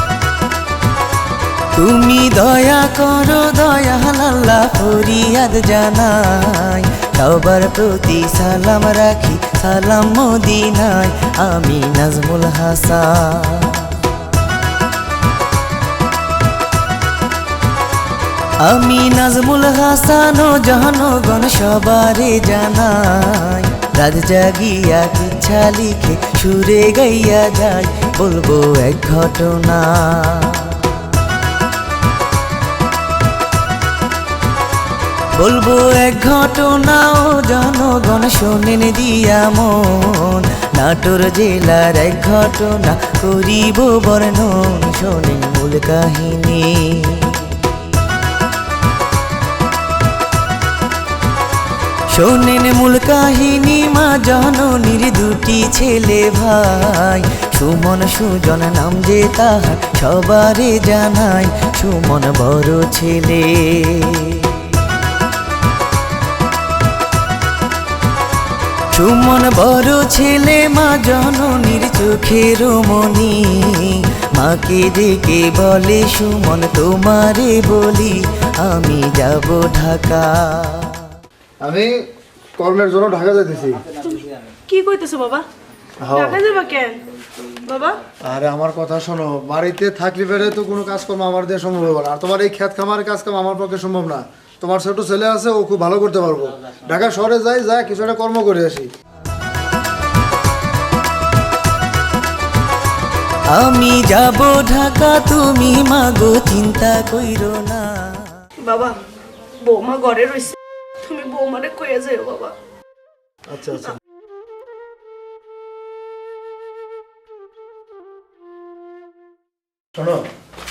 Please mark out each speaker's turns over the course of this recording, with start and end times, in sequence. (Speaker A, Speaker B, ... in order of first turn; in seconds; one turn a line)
Speaker A: 1.8-14.2
Speaker A: 18.6-31.1
Speaker A: 35.3-47.6
Speaker A: 52.1-64.7
Speaker A: 68.9-81.2
Speaker B: 81.6-82.0
Speaker B: 82.6-83.8
Speaker C: 84.0-85.5
Speaker B: 86.0-86.4
Speaker C: 86.1-88.0
Speaker B: 88.2-98.9
Speaker A: 103.5-108.5
Speaker C: 108.6-109.0
Speaker C: 109.6-112.5
Speaker B: 113.5-114.0
Speaker B: 120.0-120.3